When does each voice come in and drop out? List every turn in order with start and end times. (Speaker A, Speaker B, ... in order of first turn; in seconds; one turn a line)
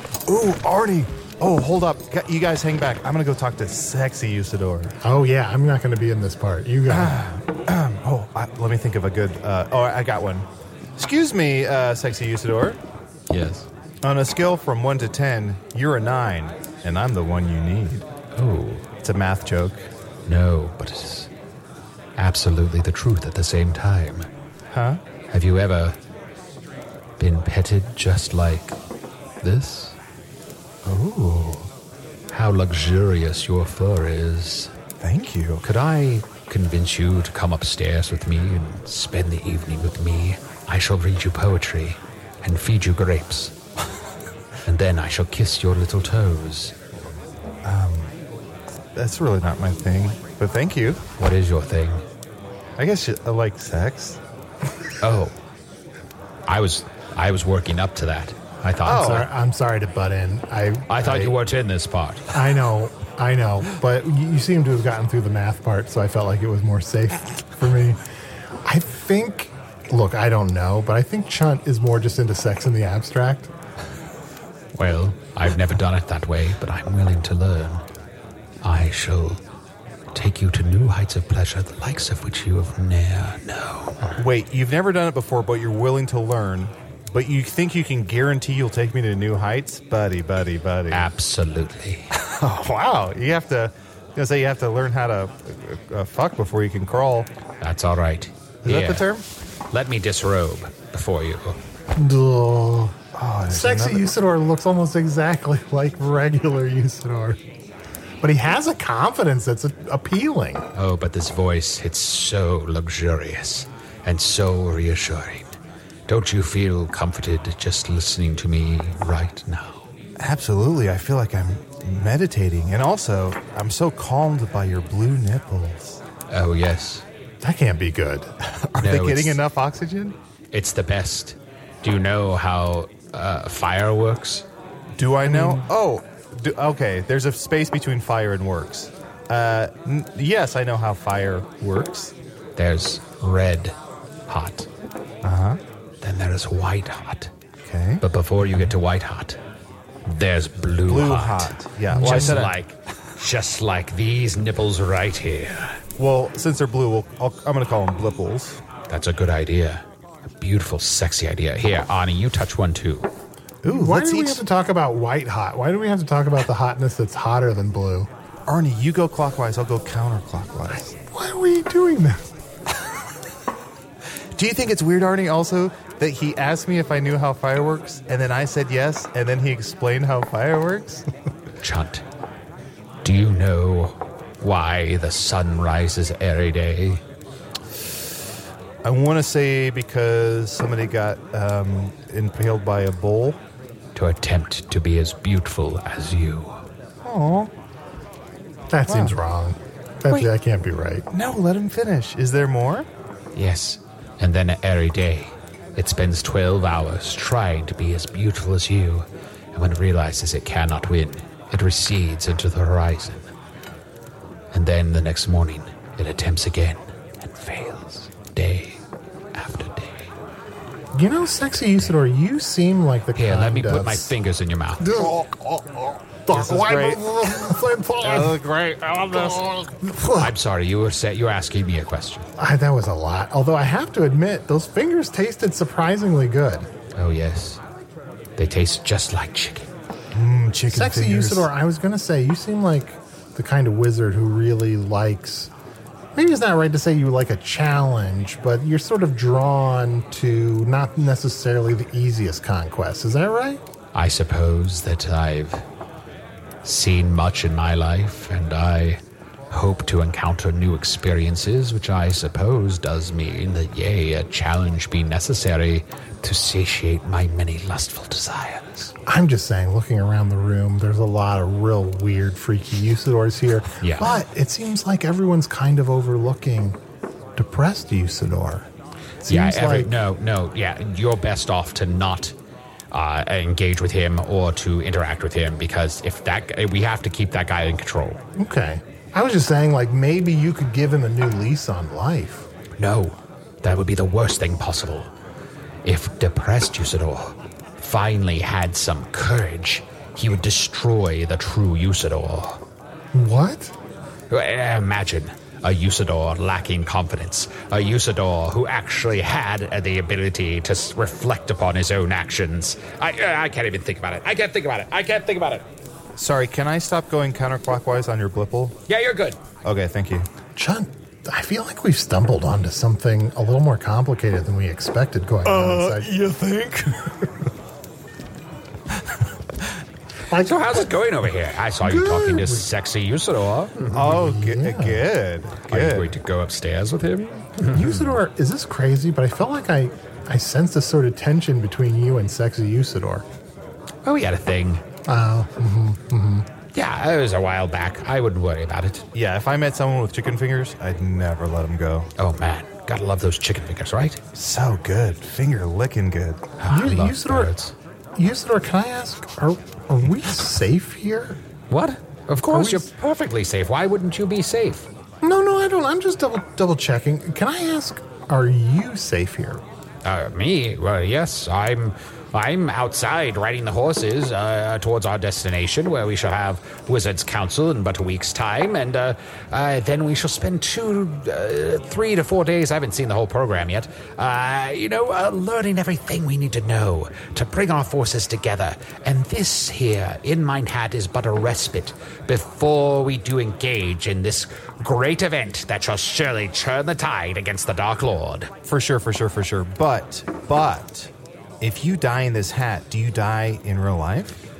Speaker A: 0.2-4.9
Speaker B: 5.0-7.2
Speaker A: 6.9-12.8
Speaker C: 13.3-13.7
Speaker A: 14.0-18.1
Speaker C: 18.4-18.8
Speaker A: 19.0-19.8
Speaker C: 20.3-21.3
Speaker C: 22.2-24.3
Speaker A: 24.7-25.0
Speaker C: 25.3-25.9
Speaker C: 27.2-28.7
Speaker C: 29.4-29.9
Speaker A: 30.8-31.7
Speaker C: 32.3-34.7
Speaker A: 35.0-35.6
Speaker C: 35.6-43.5
Speaker C: 44.6-46.7
Speaker A: 47.6-48.1
Speaker A: 48.9-51.0
Speaker C: 51.2-52.0
Speaker A: 52.8-54.2
Speaker C: 55.0-55.3
Speaker C: 56.5-59.2
Speaker A: 58.8-59.3
Speaker B: 58.9-61.3
Speaker C: 60.9-62.2
Speaker B: 62.3-68.0
Speaker B: 68.7-73.5
Speaker C: 74.8-77.8
Speaker C: 78.6-79.4
Speaker C: 80.1-84.0
Speaker A: 84.2-91.1
Speaker C: 90.9-92.1
Speaker A: 92.1-97.3
Speaker C: 97.6-99.0
Speaker A: 98.6-99.2
Speaker C: 99.7-101.6
Speaker B: 102.0-102.9
Speaker A: 103.1-104.1
Speaker B: 103.5-107.4
Speaker B: 108.2-110.7
Speaker C: 110.7-115.5
Speaker C: 116.1-119.8
Speaker A: 120.2-126.0
Speaker C: 126.3-127.0
Speaker B: 127.4-128.3
Speaker A: 128.6-130.2
Speaker C: 128.8-129.4
Speaker C: 130.5-134.4
Speaker A: 134.9-142.1
Speaker B: 135.2-135.7
Speaker C: 142.6-143.8
Speaker C: 144.3-144.7
Speaker A: 145.2-145.6
Speaker C: 146.0-147.3
Speaker A: 147.6-148.0
Speaker C: 148.0-149.4
Speaker C: 150.1-155.8
Speaker A: 150.8-152.5
Speaker B: 151.9-152.4
Speaker A: 156.0-158.6
Speaker C: 158.9-159.8
Speaker C: 160.4-163.1
Speaker A: 163.6-164.4
Speaker B: 163.7-168.1
Speaker A: 168.5-170.9
Speaker B: 170.7-172.2
Speaker A: 174.3-181.0
Speaker C: 181.6-182.0
Speaker C: 183.0-187.0
Speaker A: 188.8-193.4
Speaker C: 193.9-196.6
Speaker A: 197.0-197.5
Speaker B: 198.7-201.0
Speaker A: 198.9-199.2
Speaker A: 201.1-202.9
Speaker C: 203.3-213.3
Speaker C: 214.5-218.8
Speaker C: 219.3-220.1
Speaker B: 220.9-224.1
Speaker C: 223.1-224.8
Speaker B: 224.8-228.4
Speaker A: 226.3-229.7
Speaker B: 229.1-230.3
Speaker C: 230.2-232.2
Speaker B: 232.4-236.7
Speaker C: 236.9-237.6
Speaker C: 238.4-239.7
Speaker A: 240.1-241.5
Speaker B: 240.7-245.5
Speaker B: 246.2-253.6
Speaker C: 253.9-255.6
Speaker C: 256.6-268.9
Speaker B: 269.1-276.8
Speaker C: 273.8-274.2
Speaker B: 277.4-278.7
Speaker B: 279.2-279.9
Speaker C: 279.3-282.3
Speaker C: 282.9-288.2
Speaker B: 288.4-292.4
Speaker C: 292.8-295.1
Speaker C: 295.8-302.6
Speaker B: 303.1-303.7
Speaker C: 304.3-315.6
Speaker A: 316.1-318.8
Speaker C: 318.9-319.4
Speaker A: 319.6-320.3
Speaker B: 320.6-326.1
Speaker A: 325.5-326.8
Speaker C: 326.1-326.5
Speaker B: 330.3-330.9
Speaker C: 330.4-334.1
Speaker B: 331.8-332.6
Speaker A: 333.9-336.1
Speaker B: 334.0-335.0
Speaker C: 335.7-338.2
Speaker B: 337.7-343.2
Speaker C: 344.0-344.8
Speaker B: 345.1-346.4
Speaker C: 346.7-349.0
Speaker A: 349.1-352.1
Speaker C: 352.2-354.2
Speaker A: 354.3-356.4
Speaker C: 356.6-357.7
Speaker B: 356.7-357.5
Speaker B: 358.2-361.4
Speaker C: 361.7-364.9
Speaker B: 362.4-362.9
Speaker B: 365.2-369.6
Speaker C: 370.0-398.5
Speaker A: 398.6-404.4